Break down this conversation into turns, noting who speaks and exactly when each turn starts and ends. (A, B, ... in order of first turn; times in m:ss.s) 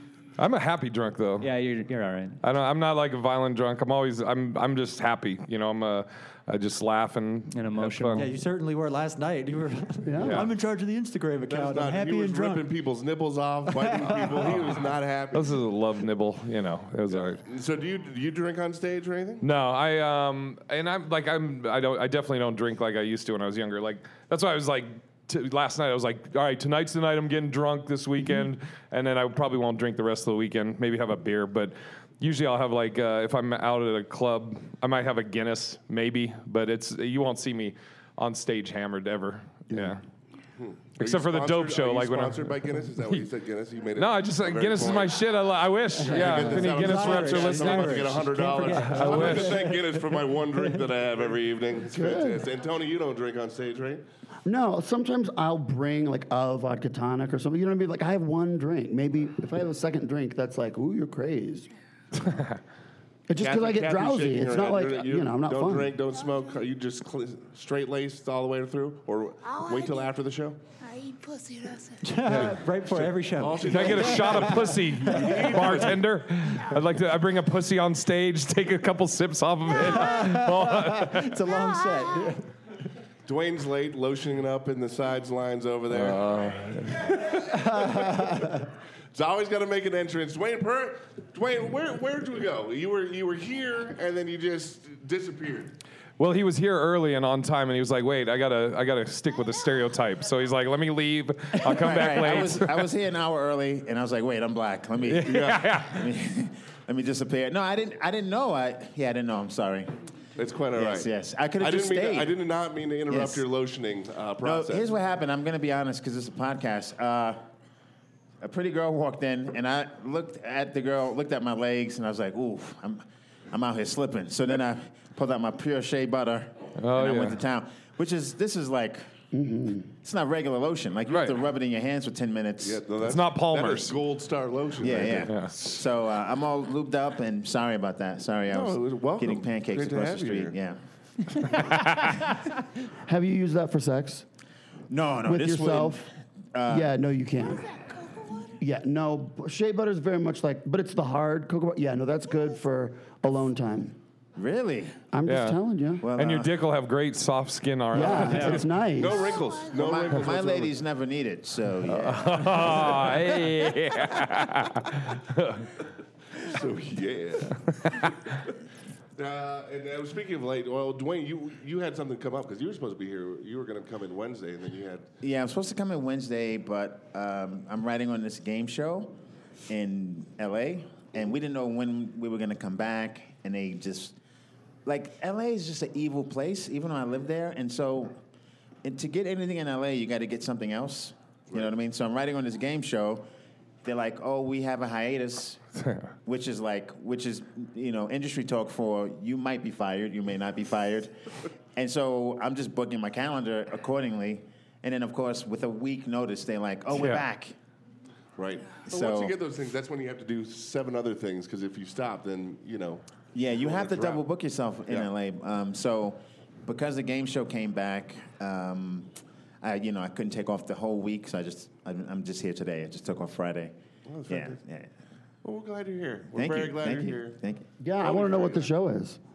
0:00.4-0:01.5 A
0:01.4-0:02.4 B
0:02.4-0:08.3 A
0:07.5-0:08.3 B
0:08.1-0:12.7 C
0:10.0-0:10.5 D
0:10.2-0:10.5 A
0:11.5-0:15.6 E
0:13.6-0:14.8 C
0:15.3-0:17.4 A
0:17.1-0:19.4 E
0:19.4-0:40.0 A
0:40.6-0:45.2 E
0:41.0-0:42.5 A
0:44.0-0:49.7 A
0:46.0-0:50.9 C
0:46.0-0:54.0 E
0:51.9-0:52.4 D
0:54.4-1:01.7 D
1:02.2-1:02.6 A
1:03.3-1:06.0 D
1:03.4-1:10.6 E
1:09.4-1:10.2 F
1:10.8-1:12.3 F
1:12.0-1:15.8 C
1:12.2-1:12.6 A
1:12.8-1:16.0 E
1:13.7-1:21.4 A
1:20.0-1:22.4 C
1:21.4-1:22.4 F
1:23.2-1:26.5 E
1:25.9-1:27.3 A
1:27.0-1:28.5 E
1:27.8-1:28.5 C
1:29.1-1:35.8 E
1:36.2-1:42.9 A
1:39.4-1:39.9 F
1:41.6-1:50.0 G
1:45.0-1:46.1 A
1:45.2-1:45.6 E
1:50.4-1:54.9 E
1:50.7-1:52.4 G
1:53.1-1:53.4 G
1:54.4-1:57.4 G
1:58.4-2:09.0 G
2:06.8-2:07.4 A
2:09.3-2:09.9 D
2:10.0-2:12.8 G
2:11.1-2:11.4 A
2:12.6-2:15.3 E
2:13.0-2:14.0 A
2:14.8-2:20.8 G
2:15.3-2:15.5 A
2:18.5-2:20.6 E
2:21.4-2:22.2 A
2:23.0-2:24.2 D
2:24.9-2:26.9 G
2:25.2-2:26.0 D
2:26.7-2:27.7 D
2:27.4-2:28.6 F
2:28.6-2:34.0 D
2:34.4-2:35.0 G
2:35.1-2:36.1 D
2:35.2-2:35.6 A
2:36.0-2:36.5 G
2:36.1-2:38.7 A
2:37.9-2:39.4 D
2:38.2-2:40.7 E
2:38.3-2:38.6 B
2:38.6-2:40.0 F
2:39.8-2:42.9 G
2:41.9-2:45.7 A
2:43.1-2:44.2 F
2:46.4-2:48.1 E
2:47.6-2:48.2 A
2:49.2-2:55.0 E
2:55.2-2:59.1 G
2:59.7-3:04.2 G
3:04.8-3:08.2 G
3:08.8-3:13.3 G
3:13.8-3:15.6 G
3:15.8-3:16.1 A
3:16.2-3:21.2 G
3:21.7-3:27.6 G
3:26.9-3:27.2 A
3:28.4-3:33.0 E
3:28.9-3:29.3 G
3:33.3-3:43.7 G
3:33.5-3:34.2 E
3:44.1-3:44.6 E
3:44.3-3:44.9 G
3:45.4-3:47.4 E
3:46.3-3:48.4 G
3:47.8-3:49.2 D
3:48.0-3:48.7 E